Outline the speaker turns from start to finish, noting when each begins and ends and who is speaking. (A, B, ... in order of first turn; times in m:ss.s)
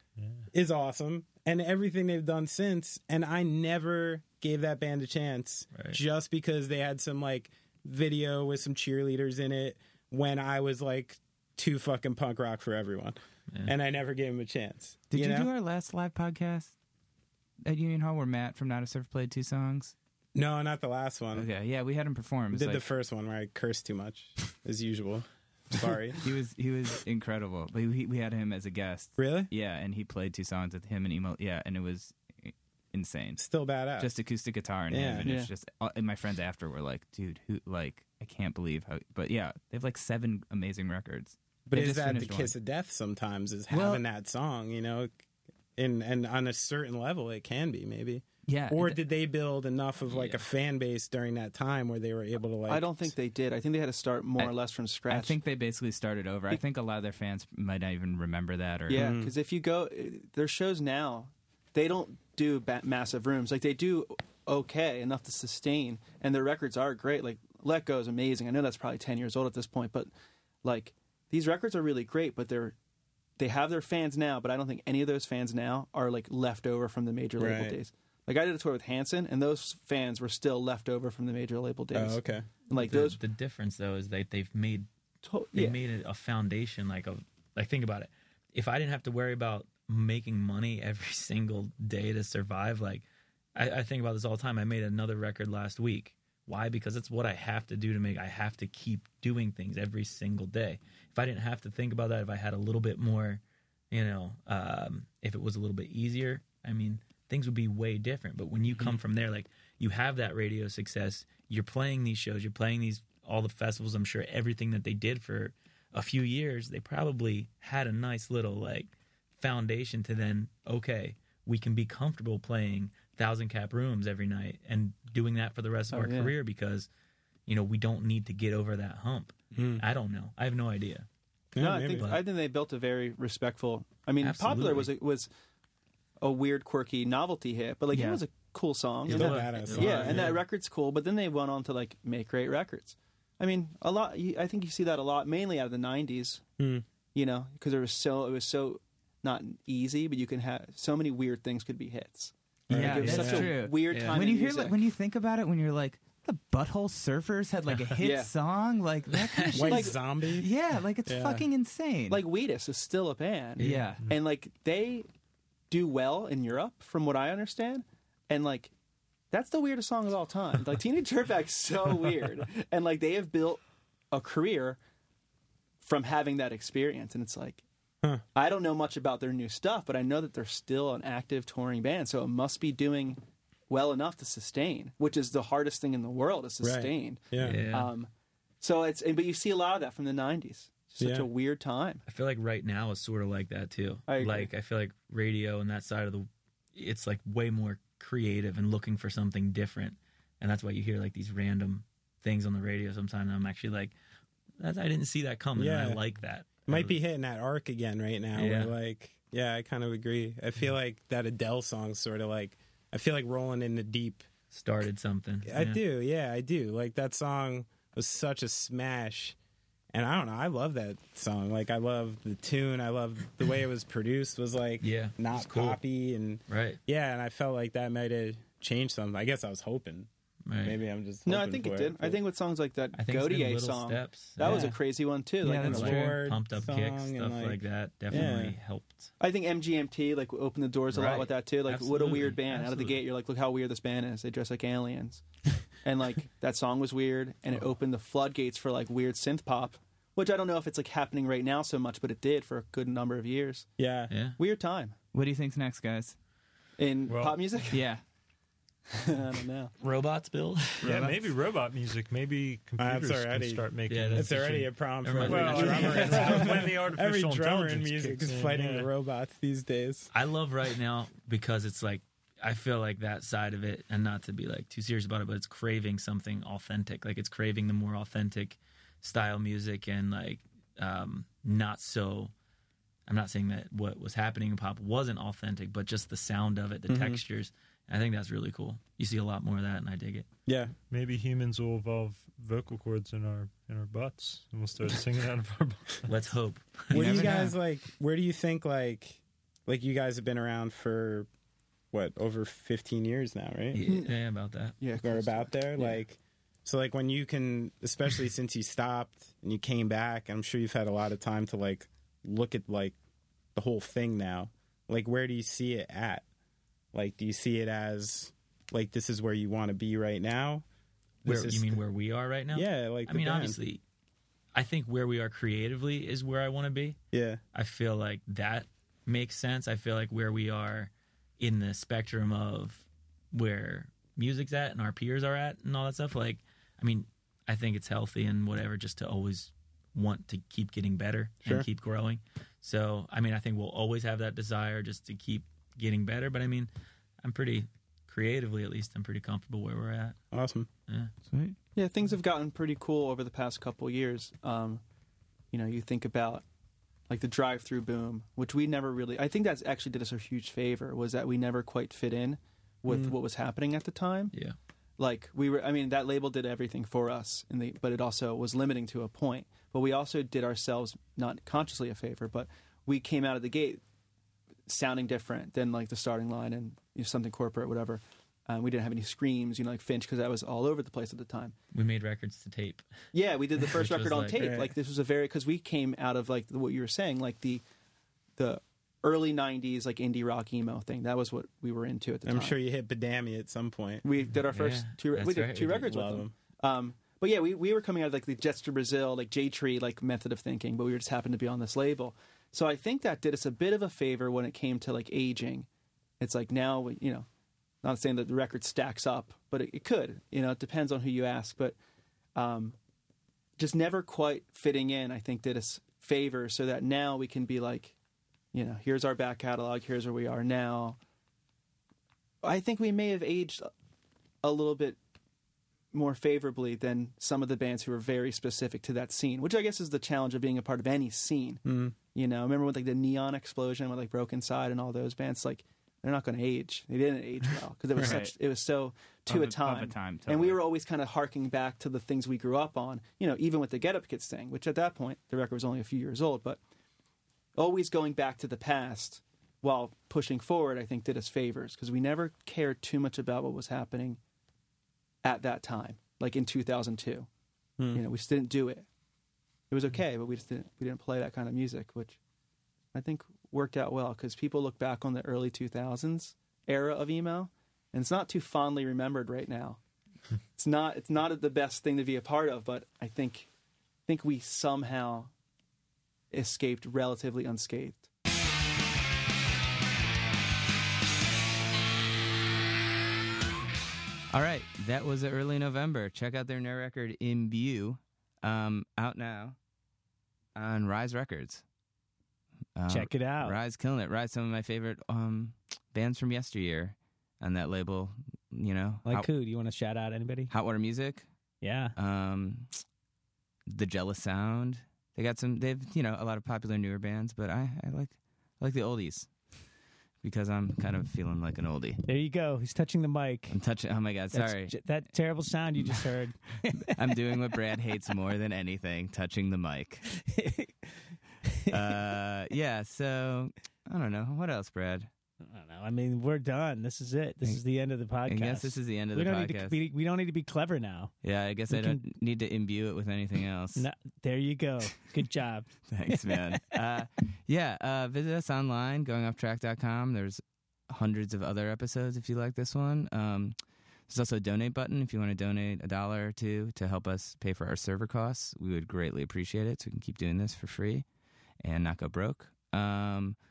0:00.2-0:00.5 A
0:00.5-0:15.5 B
0:05.7-0:06.0 C
0:15.1-0:16.7 D
0:17.6-0:19.9 D
0:20.3-0:21.5 B
0:21.3-0:22.8 D
0:22.5-0:26.2 B
0:26.2-0:33.4 D
0:29.2-0:29.5 B
0:33.4-0:34.1 B
0:34.0-0:42.5 D
0:34.9-0:35.3 B
0:41.7-0:45.2 B
0:43.7-0:44.0 D
0:45.8-0:53.1 B
0:48.5-0:49.0 D
0:50.1-0:50.4 D
0:52.7-0:55.4 E
0:55.1-0:59.1 D
0:58.9-1:10.1 E
0:58.9-0:59.3 B
1:10.6-1:12.7 E
1:13.4-1:23.2 E
1:17.4-1:17.8 B
1:21.9-1:22.4 B
1:22.7-1:24.9 C
1:25.2-1:25.8 E
1:25.5-2:06.9 C
2:05.9-2:06.3 E
2:07.5-2:11.0 C
2:09.5-2:09.8 B
2:11.5-2:12.2 B
2:11.6-2:15.3 E
2:12.0-2:12.2 C
2:14.2-2:14.9 C
2:16.2-2:26.4 E
2:17.9-2:18.2 D
2:19.0-2:20.4 C
2:19.0-2:20.4 B
2:26.6-2:26.8 B
2:27.1-2:34.8 E
2:32.7-2:33.5 B
2:32.7-2:42.2 D
2:33.9-2:34.2 C
2:37.7-2:38.0 C
2:38.0-2:38.3 E
2:39.3-2:39.6 C
2:39.5-2:40.5 B
2:39.6-2:39.9 E
2:41.0-2:41.5 B
2:42.1-2:45.0 E
2:43.6-2:44.1 D
2:43.6-2:43.8 C
2:45.7-2:48.7 E
2:49.3-2:53.6 E
2:54.1-2:54.8 E
2:55.8-2:57.6 E
2:58.3-3:08.1 E
3:06.6-3:07.6 B
3:07.4-3:07.9 C
3:08.6-3:12.0 E
3:11.0-3:11.3 B
3:12.1-3:23.9 C
3:14.1-3:14.5 E
3:24.6-3:27.0 C
3:25.5-3:26.0 B
3:26.7-3:34.3 B
3:28.4-3:28.7 C
3:34.5-3:35.8 C
3:35.4-3:39.4 B
3:39.9-3:50.1 B
3:44.8-3:45.8 C
3:46.5-3:46.8 C
3:50.4-3:50.8 C
3:50.6-3:52.2 B
3:51.2-3:55.8 E
3:52.9-3:54.8 C
3:54.4-3:54.7 D
3:55.4-3:56.2 D
3:55.6-3:59.1 C
3:55.6-3:58.6 B
3:59.2-4:05.2 E
4:00.9-4:03.0 C
4:05.8-4:13.7 E
4:13.8-4:14.1 B
4:14.1-4:14.4 C
4:14.4-4:15.0 E
4:15.1-4:16.2 D
4:16.8-4:17.8 E
4:17.1-4:17.5 A
4:17.7-4:18.0 D
4:18.9-4:19.7 E
4:19.8-4:20.9 C
4:20.8-4:24.7 A
4:20.9-4:21.2 D
4:22.8-4:30.1 B
4:23.9-4:26.7 C
4:25.2-4:28.9 A
4:30.1-4:42.3 C
4:43.1-4:50.2 C
4:46.9-4:47.2 B
4:50.5-4:50.7 B
4:50.9-4:56.2 A
4:56.1-4:57.5 C
4:56.9-5:01.3 B
4:57.0-4:57.3 A
5:01.9-5:03.8 B
5:03.7-5:04.8 C
5:03.8-5:04.1 E
5:04.8-5:06.0 E
5:05.0-5:12.9 B
5:13.5-5:16.2 B
5:16.9-5:20.6 B
5:21.2-5:21.8 B
5:21.2-5:23.8 C
5:22.5-5:23.6 B
5:24.5-5:27.0 C
5:27.1-5:27.4 B
5:27.5-5:46.7 C
5:47.2-5:50.2 C
5:50.3-5:50.7 B
5:51.3-5:51.6 D
5:51.8-5:54.8 E
5:55.5-5:56.4 E
5:57.1-6:04.3 E
6:02.9-6:03.1 B
6:05.0-6:13.8 E
6:14.7-6:21.5 E
6:21.7-6:22.8 C
6:23.1-6:27.6 E
6:23.6-6:24.5 C
6:24.4-6:24.7 B
6:28.4-6:32.6 E
6:32.2-6:34.0 B
6:34.0-6:45.7 E
6:34.5-6:36.0 C
6:35.8-6:36.3 B
6:46.2-6:47.3 E
6:47.8-6:51.8 E
6:52.4-6:52.8 E
6:53.6-6:57.9 E
6:58.5-7:01.0 E
7:02.4-7:03.7 E
7:04.4-7:05.0 E
7:05.9-7:26.6 E
7:11.6-7:12.0 B
7:18.0-7:18.3 D
7:19.3-7:20.6 D
7:27.6-7:34.2 E
7:35.2-7:37.3 E
7:37.8-7:38.0 B
7:37.9-7:38.8 E
7:39.7-7:42.2 E
7:42.9-7:49.8 E
7:50.6-7:53.5 E
7:54.1-7:55.3 E
7:56.3-7:58.1 E
8:04.3-8:09.6 D
8:10.6-8:11.6 D
8:12.8-8:19.3 D
8:12.9-8:13.6 F
8:19.0-8:20.5 F
8:20.5-8:21.2 D
8:21.6-8:21.9 F
8:22.0-8:22.8 D
8:23.7-8:29.3 D
8:30.2-8:32.0 D
8:32.0-8:33.6 F
8:33.5-8:34.8 D
8:34.3-8:37.6 F
8:36.8-8:40.0 D
8:40.1-8:40.7 F
8:41.5-8:41.7 F
8:41.7-8:45.1 D
8:45.4-8:51.1 F
8:48.2-8:49.8 D
8:51.2-8:53.8 D
8:51.7-8:52.0 F
8:53.7-8:56.8 F
8:55.9-9:03.6 D
9:04.1-9:11.0 D
9:11.6-9:13.4 D